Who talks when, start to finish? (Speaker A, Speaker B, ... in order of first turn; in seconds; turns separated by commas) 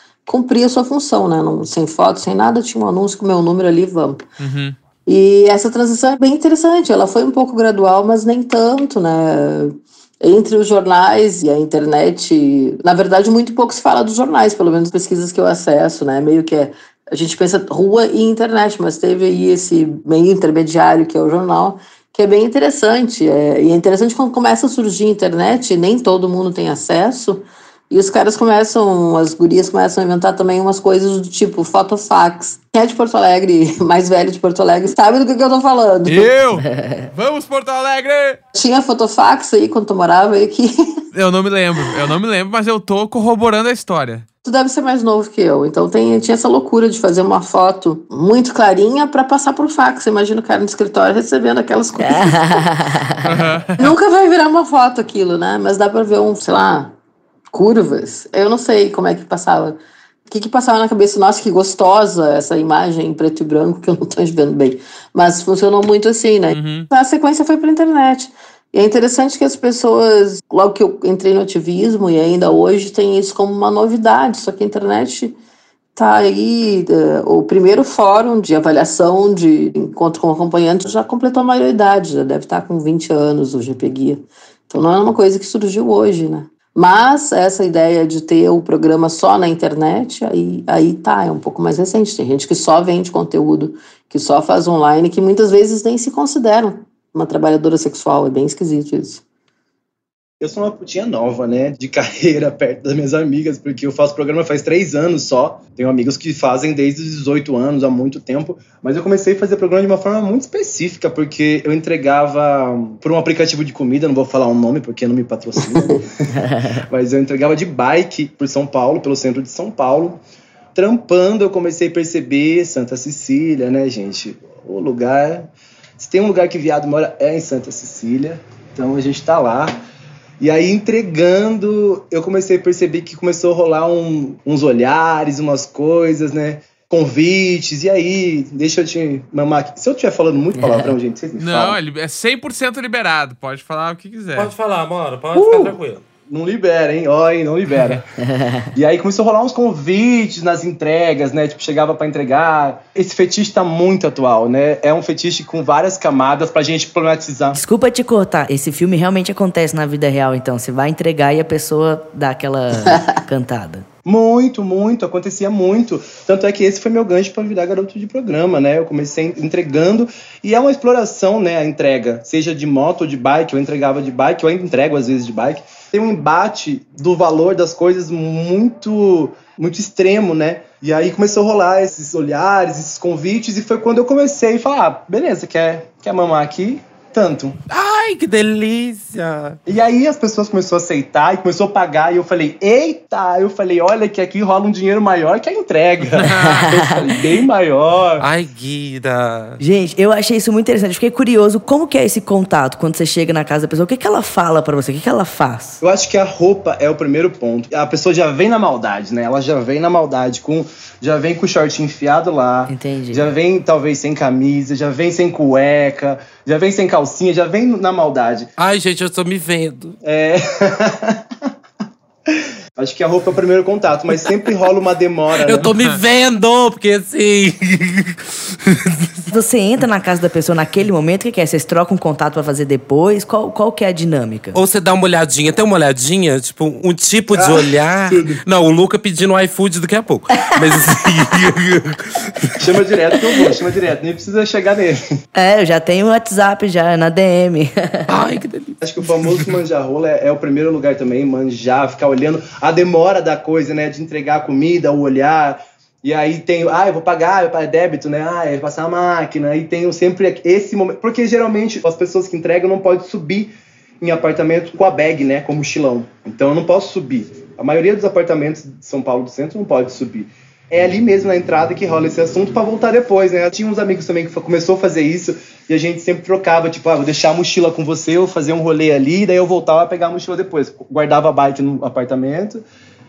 Speaker A: 0.3-4.2, Speaker B: 4.4-4.8, Speaker A: 5.1-36.3, Speaker B: 36.1-38.4, Speaker C: 36.6-37.1, Speaker A: 38.5-40.7, Speaker B: 41.1-44.3, Speaker A: 44.4-52.7, Speaker C: 52.0-53.4, Speaker B: 53.2-53.9, Speaker A: 53.8-57.0, Speaker A: 57.5-75.4, Speaker B: 66.5-66.9, Speaker A: 76.0-99.2, Speaker D: 100.4-120.2, Speaker C: 116.3-116.8, Speaker D: 120.8-129.8, Speaker D: 130.4-141.8, Speaker C: 140.6-141.0, Speaker B: 141.4-144.5, Speaker E: 144.4-146.0, Speaker D: 145.3-145.8, Speaker D: 146.3-148.1, Speaker C: 148.2-148.7, Speaker D: 148.8-157.6, Speaker C: 157.5-163.9, Speaker D: 164.1-187.6, Speaker E: 187.7-189.6, Speaker D: 189.7-198.3, Speaker B: 196.2-196.7, Speaker C: 196.4-197.1, Speaker E: 198.2-199.6, Speaker C: 199.6-205.8, Speaker D: 205.8-218.5, Speaker C: 212.7-213.2, Speaker E: 218.6-220.0, Speaker D: 220.0-221.2, Speaker D: 222.3-225.7, Speaker E: 225.4-229.3, Speaker C: 229.3-234.6, Speaker E: 234.5-242.6, Speaker D: 237.3-238.4, Speaker C: 240.6-240.9, Speaker D: 242.6-245.0, Speaker C: 245.3-248.2, Speaker E: 248.1-249.5, Speaker D: 248.8-282.6